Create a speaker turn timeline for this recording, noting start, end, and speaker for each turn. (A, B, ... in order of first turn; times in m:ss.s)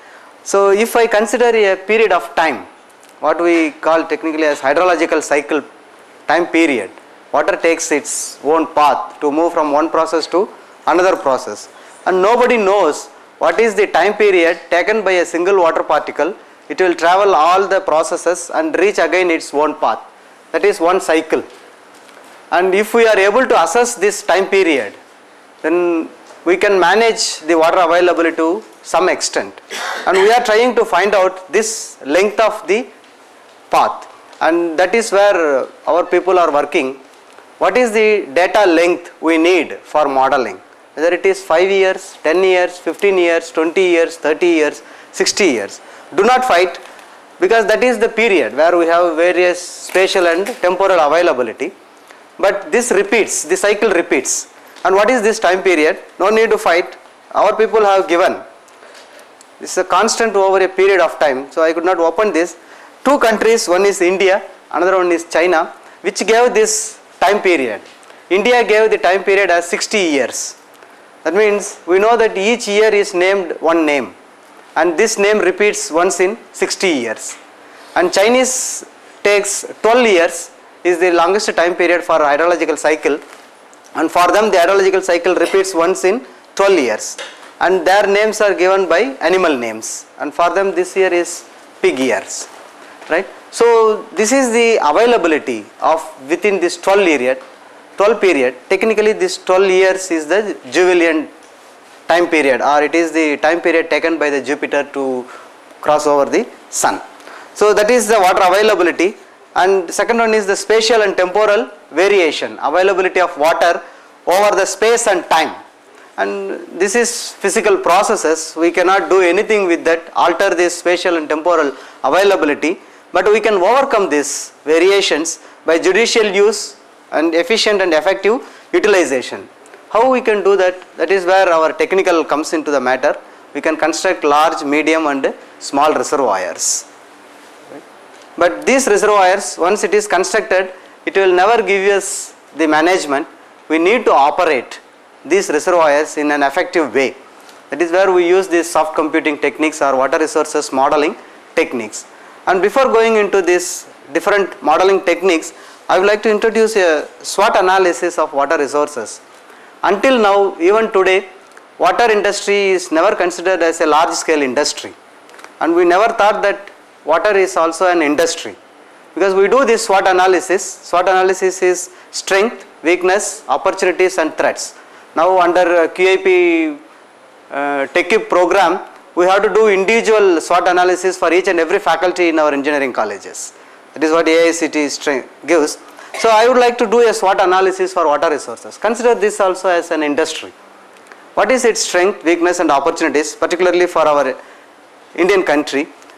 0:00.4-0:02.7 A
0:03.2-0:05.7 A
0:06.3-0:21.4 A
0:22.5-0:25.0 A
0:25.6-0:32.9 A
0:33.7-0:37.0 A
0:37.6-0:46.8 A
0:47.4-0:51.7 A
0:52.4-0:58.4 A
0:59.6-1:10.6 A
1:11.2-1:14.1 A
1:14.8-1:17.4 A
1:17.9-1:23.2 A
1:24.0-1:32.5 A
1:33.1-1:37.4 A
1:38.0-1:41.3 A
1:42.1-1:45.3 A
1:45.8-1:47.0 A
1:47.6-1:55.6 A
1:56.2-2:16.9 A
2:18.4-2:27.1 A
2:27.7-2:39.2 A
2:39.8-2:41.2 A
2:41.8-2:44.9 A
2:45.6-2:48.6 A
2:49.1-2:56.8 A
2:57.5-3:10.5 A
3:11.4-3:14.4 A
3:15.2-3:15.9 A